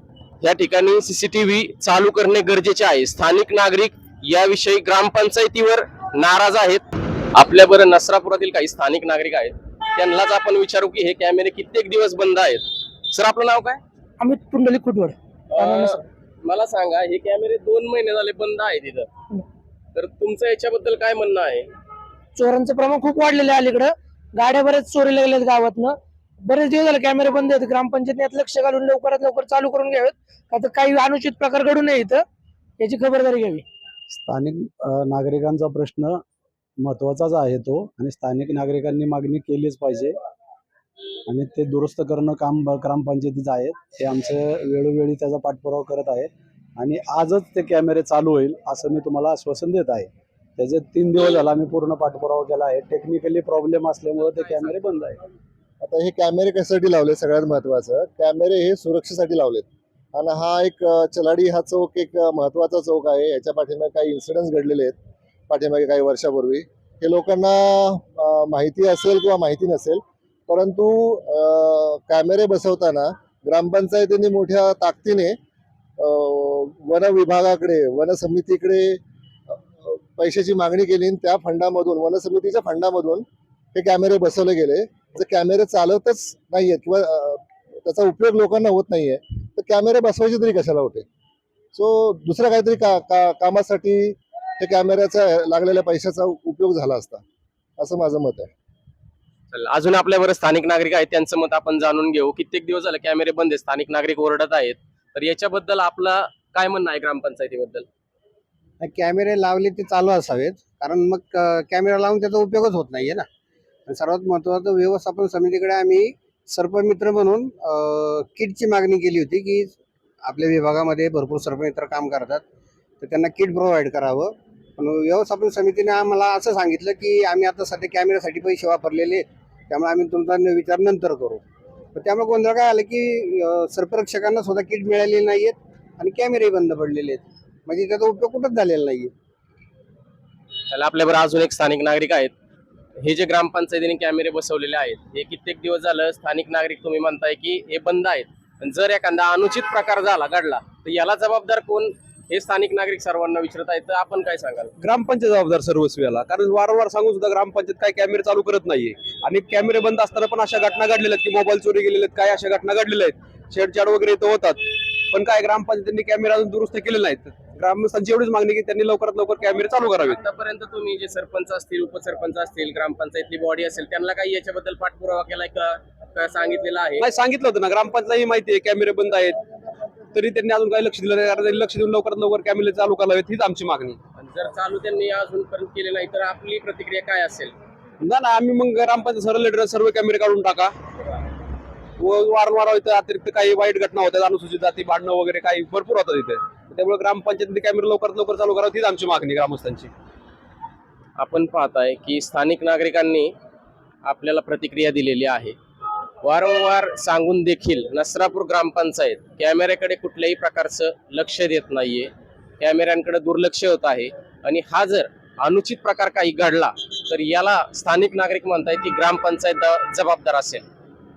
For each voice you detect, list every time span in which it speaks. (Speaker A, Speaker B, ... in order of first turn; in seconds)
Speaker A: 0.4-13.8, 15.5-19.1, 19.9-21.7, 99.5-107.8, 140.7-142.3, 143.0-154.7, 170.1-177.1, 184.2-187.5, 201.2-203.3, 204.0-205.6, 206.2-212.1, 212.6-220.7
Speaker B: 14.2-16.0, 22.4-32.2, 32.8-33.6
Speaker C: 34.1-36.2, 36.8-40.2, 41.3-55.2
Speaker D: 55.8-65.0, 65.5-75.4, 76.0-79.0, 79.8-91.1, 91.7-97.2, 97.8-98.5
Speaker E: 108.8-113.2, 113.9-122.4, 123.0-131.4, 131.9-139.1
Speaker F: 154.8-164.6, 165.1-170.1, 177.0-179.3, 180.1-183.9, 188.0-190.7, 192.0-199.9